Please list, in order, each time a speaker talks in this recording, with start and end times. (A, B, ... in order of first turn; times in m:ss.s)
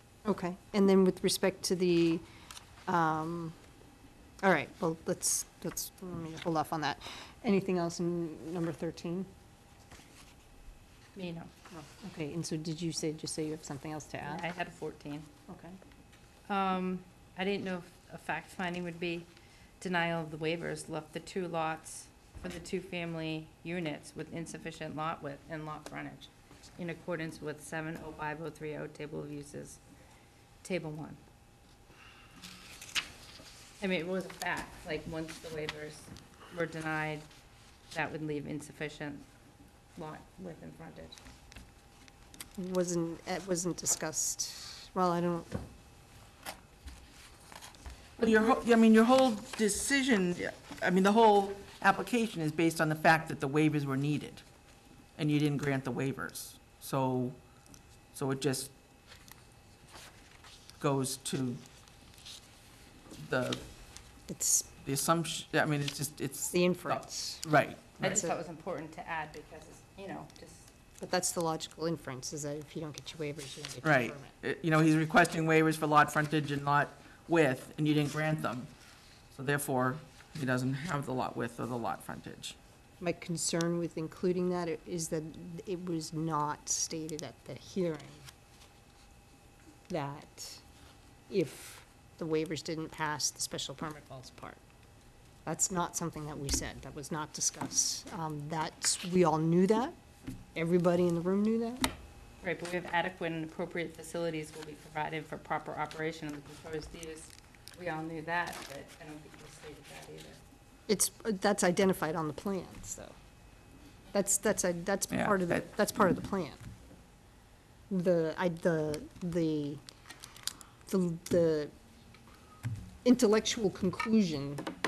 0:00.2-0:02.2 A
0:02.9-0:03.6 A
0:04.4-0:09.3 A
0:11.1-0:11.5 B
0:11.7-0:14.4 A
0:14.2-0:15.3 B
0:15.5-0:15.8 A
0:16.5-0:29.8 B
0:30.6-0:31.2 B
0:33.8-0:37.3 B
0:37.9-0:39.2 B
0:40.0-0:41.2 B
0:42.6-0:45.5 A
0:48.2-0:54.4 C
0:55.2-0:57.4 C
0:58.1-0:58.7 C
1:00.8-1:01.6 C
1:03.2-1:03.6 C
1:04.3-1:04.7 A
1:04.8-1:08.2 C
1:06.5-1:07.4 A
1:08.0-1:10.7 B
1:08.0-1:08.3 A
1:11.0-1:14.3 A
1:13.8-1:18.7 C
1:19.3-1:22.6 C
1:23.0-1:28.2 A
1:29.9-1:30.6 A
1:31.3-1:34.6 A
1:35.4-1:39.9 A
1:40.5-1:41.9 A
1:42.4-1:50.4 B
1:50.9-1:53.1 A
1:54.1-1:56.6 A
1:55.1-1:55.6 C
1:57.9-1:59.8 A
2:00.9-2:01.7 A
2:03.0-2:04.6 A